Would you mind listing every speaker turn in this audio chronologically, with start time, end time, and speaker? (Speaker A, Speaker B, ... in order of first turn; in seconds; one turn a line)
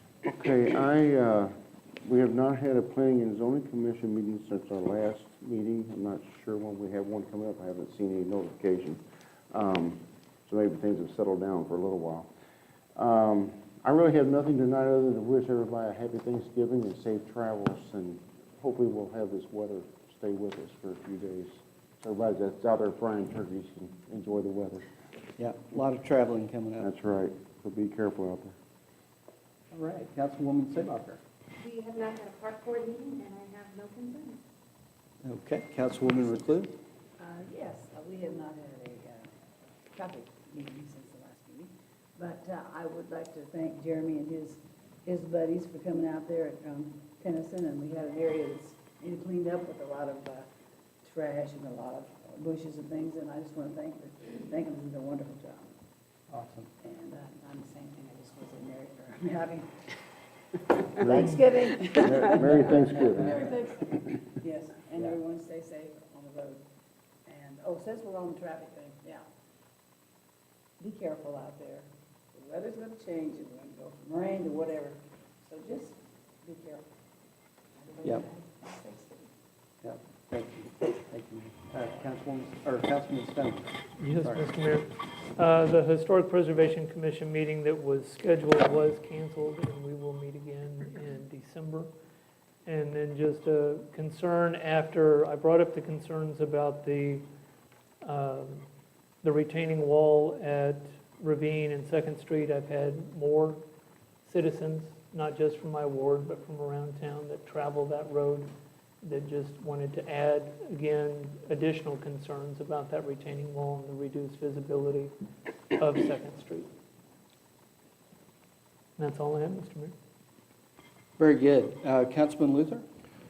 Speaker A: 0.2-1.5
Speaker A: 2.0-9.0
Speaker A: 9.5-12.3
Speaker A: 12.9-24.8
Speaker B: 25.4-26.9
Speaker A: 26.8-28.6
Speaker B: 29.7-31.2
Speaker C: 31.6-34.4
Speaker B: 35.2-36.7
Speaker D: 37.2-39.3
Speaker D: 39.9-50.5
Speaker D: 51.0-55.7
Speaker B: 56.3-56.7
Speaker D: 56.8-59.9
Speaker D: 60.7-66.6
Speaker A: 61.0-61.4
Speaker A: 62.0-63.5
Speaker D: 67.2-69.2
Speaker D: 70.8-76.8
Speaker D: 78.0-79.1
Speaker B: 78.0-78.3
Speaker B: 79.8-84.5
Speaker E: 84.0-91.9
Speaker E: 92.7-97.3
Speaker E: 98.0-98.7
Speaker E: 99.2-103.6
Speaker E: 104.2-108.5
Speaker E: 109.0-115.1
Speaker E: 115.8-116.7
Speaker E: 119.0-119.9
Speaker B: 121.2-122.8